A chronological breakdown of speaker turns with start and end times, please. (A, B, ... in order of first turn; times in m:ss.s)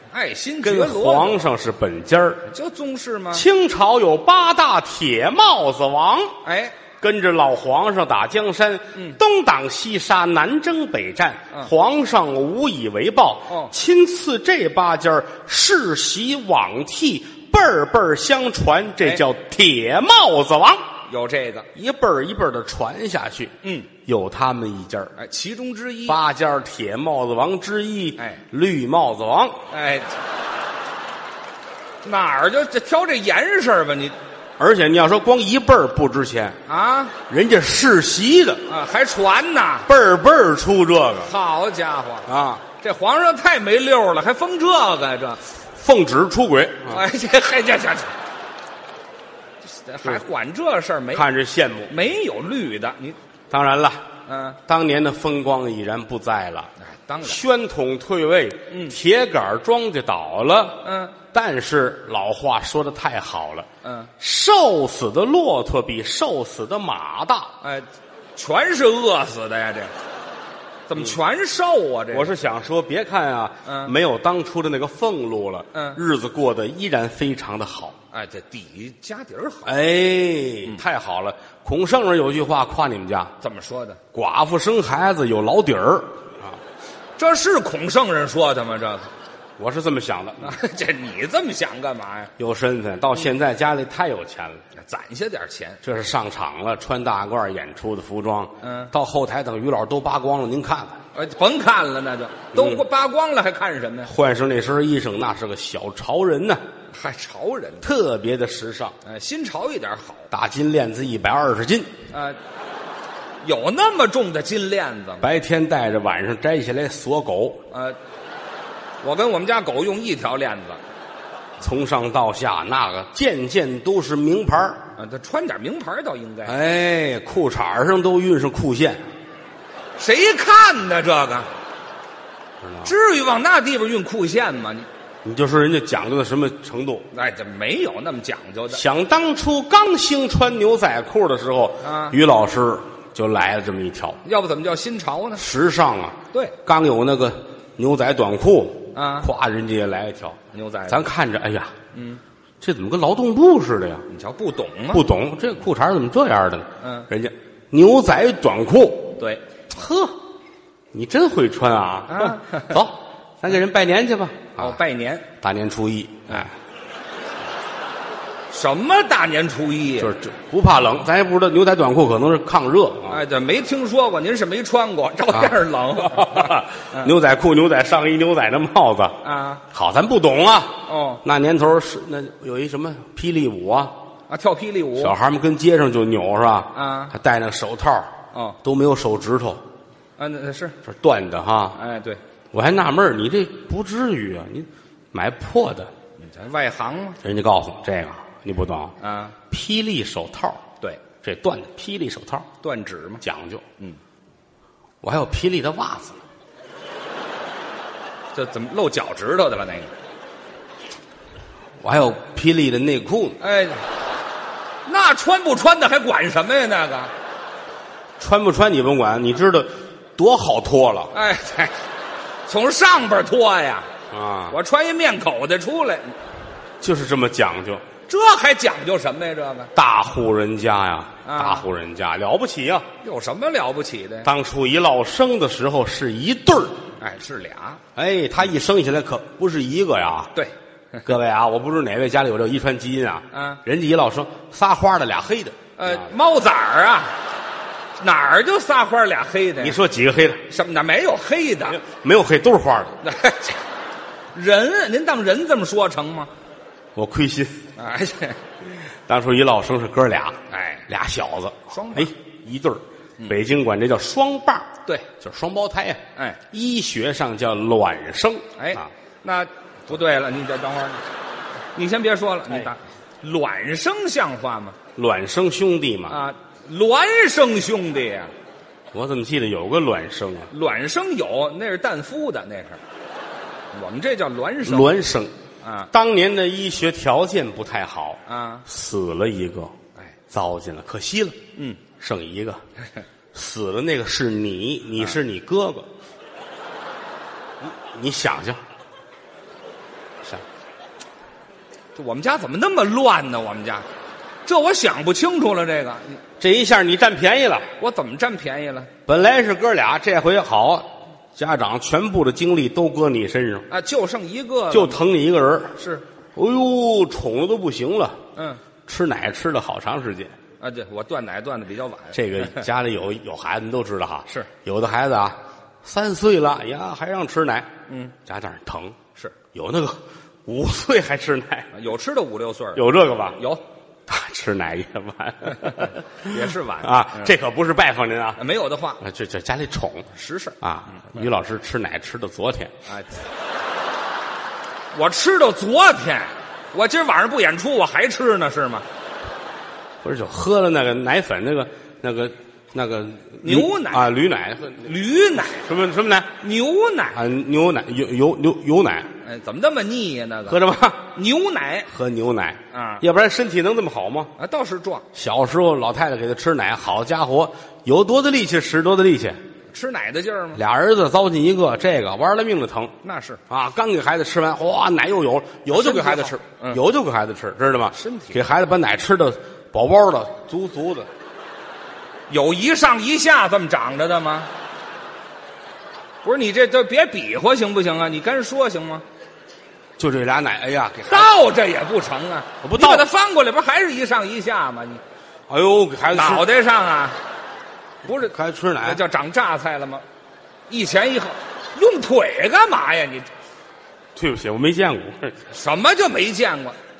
0:00.1-0:01.5 A
0:00.6-0:02.4 B
0:02.4-0:03.4 A
0:03.3-0:06.4 B
0:06.4-0:06.8 A
0:07.0-0:20.8 B
0:13.5-0:13.7 A
0:21.1-0:21.7 A
0:21.7-0:25.1 B
0:23.6-0:23.9 A
0:25.2-0:26.2 A
0:26.1-0:29.6 B
0:29.7-0:30.2 A
0:32.0-0:34.1 A
0:34.6-0:36.6 B
0:36.7-0:37.1 A
0:37.3-0:38.6 B
0:38.7-0:39.9 A
0:39.8-0:41.3 B
0:41.2-0:45.4 A
0:42.3-0:42.6 B
0:45.8-0:47.0 B
0:46.9-0:48.1 A
0:49.6-0:51.2 A
0:51.1-0:52.0 B
0:51.9-0:53.2 A
0:53.5-0:54.0 B
0:54.3-0:54.6 A
0:54.7-0:56.7 B
0:56.8-0:57.4 A
0:57.2-1:07.5 B
0:58.7-0:59.0 A
1:00.8-1:01.2 A
1:03.8-1:04.1 A
1:07.6-1:09.9 A
1:10.9-1:12.3 A
1:12.1-1:18.0 B
1:13.6-1:13.9 A
1:15.7-1:16.0 A
1:18.1-1:19.7 A
1:19.6-1:23.3 B
1:23.4-1:24.0 A
1:24.1-1:26.6 B
1:27.2-1:29.1 A
1:29.6-1:30.6 B
1:30.4-1:32.3 A
1:32.4-1:34.6 B
1:34.7-1:35.8 A
1:35.8-1:41.0 B
1:38.6-1:38.9 A
1:41.1-1:44.1 A
1:42.5-1:42.8 B
1:44.0-1:46.6 B
1:46.9-1:47.9 A
1:47.8-1:49.0 B
1:49.0-1:50.3 A
1:50.3-1:51.9 B
1:52.1-1:52.4 A
1:53.4-1:55.2 A
1:55.2-1:57.6 B
1:57.7-1:58.0 A
1:59.0-2:00.8 A
2:01.6-2:04.8 B
2:05.0-2:06.6 A
2:06.4-2:09.0 B
2:10.0-2:11.5 A
2:12.6-2:12.9 B
2:12.8-2:14.9 A
2:15.2-2:17.1 B
2:17.1-2:18.8 A
2:18.7-2:24.2 B
2:21.8-2:22.2 A
2:24.2-2:25.4 A
2:25.4-2:31.7 B
2:28.9-2:29.3 A
2:30.5-2:31.0 A
2:31.9-2:32.2 A
2:32.6-2:34.0 B
2:34.1-2:35.0 A
2:34.9-2:39.2 B
2:36.8-2:37.1 A
2:39.2-2:39.4 A
2:39.7-2:40.2 B
2:40.9-2:44.8 B
2:42.1-2:42.7 A
2:44.6-2:45.3 A
2:45.4-2:46.5 B
2:48.5-2:50.1 A
2:50.0-2:53.2 B
2:53.1-2:57.1 A
2:55.3-3:03.9 B
2:59.2-2:59.6 A
3:00.8-3:01.2 A
3:04.3-3:05.1 A
3:05.0-3:09.6 B
3:06.7-3:07.1 A
3:08.3-3:08.6 A
3:10.2-3:10.8 A
3:10.8-3:11.8 B
3:11.8-3:12.2 A
3:12.5-3:15.9 B
3:16.2-3:17.2 A
3:17.2-3:18.9 B
3:19.0-3:19.4 A
3:19.5-3:20.6 B
3:21.2-3:22.5 B
3:22.6-3:23.2 A
3:23.2-3:23.6 B
3:25.0-3:26.2 B
3:28.3-3:29.9 A
3:31.8-3:33.4 B
3:33.4-3:33.8 A
3:34.8-3:37.1 A
3:38.2-3:41.1 B
3:41.1-3:41.8 A
3:42.5-3:43.9 A
3:44.1-3:44.6 B
3:44.5-3:46.1 A
3:46.8-3:47.8 B
3:48.1-3:49.7 A
3:49.7-3:52.9 B
3:51.2-3:51.6 A
3:53.0-3:54.3 A
3:54.2-3:56.8 B
3:57.0-3:57.8 A
3:58.0-4:00.3 B
4:00.3-4:01.1 A
4:01.0-4:06.1 B
4:03.3-4:03.6 A
4:05.8-4:07.1 A
4:08.0-4:09.8 A
4:09.6-4:10.4 B
4:10.5-4:11.8 A
4:11.7-4:12.9 B
4:13.0-4:13.6 A
4:14.3-4:16.3 A
4:16.9-4:17.6 B
4:17.8-4:18.4 A
4:18.9-4:28.9 B
4:20.5-4:20.8 A
4:21.7-4:22.1 A
4:26.2-4:26.4 A
4:28.6-4:31.0 A
4:31.7-4:34.8 A
4:35.0-4:36.2 B
4:36.1-4:38.3 A
4:38.9-4:40.5 B
4:40.5-4:42.8 A
4:43.7-4:44.9 A
4:44.6-4:45.3 B
4:45.6-4:45.9 A
4:45.9-4:49.7 B
4:48.3-4:48.6 A
4:50.3-4:51.4 B
4:51.6-4:51.8 A
4:52.0-4:52.6 B
4:53.3-4:55.9 B
4:57.6-4:58.6 B
5:01.9-5:03.8 A
5:04.4-5:06.2 A
5:06.4-5:07.7 B
5:07.8-5:08.9 A
5:09.0-5:13.6 B
5:13.7-5:15.0 A
5:14.7-5:15.8 B
5:15.8-5:16.0 A
5:16.3-5:18.2 B
5:18.8-5:20.3 B
5:20.6-5:22.6 A
5:22.1-5:27.7 B
5:27.9-5:28.1 A
5:28.2-5:29.0 B
5:29.5-5:31.7 B
5:31.7-5:32.8 A
5:32.7-5:33.4 B
5:33.4-5:33.6 A
5:34.1-5:38.4 B
5:35.6-5:37.3 A
5:38.4-5:39.0 A
5:39.0-5:40.1 B
5:40.1-5:41.2 A
5:40.6-5:42.7 B
5:42.8-5:43.2 A
5:44.9-5:48.8 A
5:50.0-5:54.9 B
5:53.4-5:54.1 A
5:54.8-5:55.6 A
5:55.6-5:56.3 B
5:56.4-5:57.2 A
5:57.1-5:59.1 B
5:59.2-6:00.6 A
6:00.5-6:01.1 B
6:01.1-6:01.9 A
6:01.9-6:04.3 B
6:02.7-6:03.0 A
6:04.4-6:05.0 A
6:05.1-6:09.4 B
6:09.7-6:10.6 A
6:10.6-6:12.9 B
6:13.0-6:13.4 A
6:13.5-6:21.1 B
6:15.7-6:16.8 A
6:17.9-6:18.4 A
6:22.3-6:24.5 A
6:26.2-6:29.0 A
6:30.0-6:31.3 B
6:31.1-6:35.0 A
6:32.6-6:33.1 B
6:35.5-6:36.4 B
6:36.1-6:37.2 A
6:38.0-6:40.0 A
6:38.1-6:39.0 B
6:40.7-6:43.3 A
6:44.1-6:45.4 B
6:45.5-6:46.8 A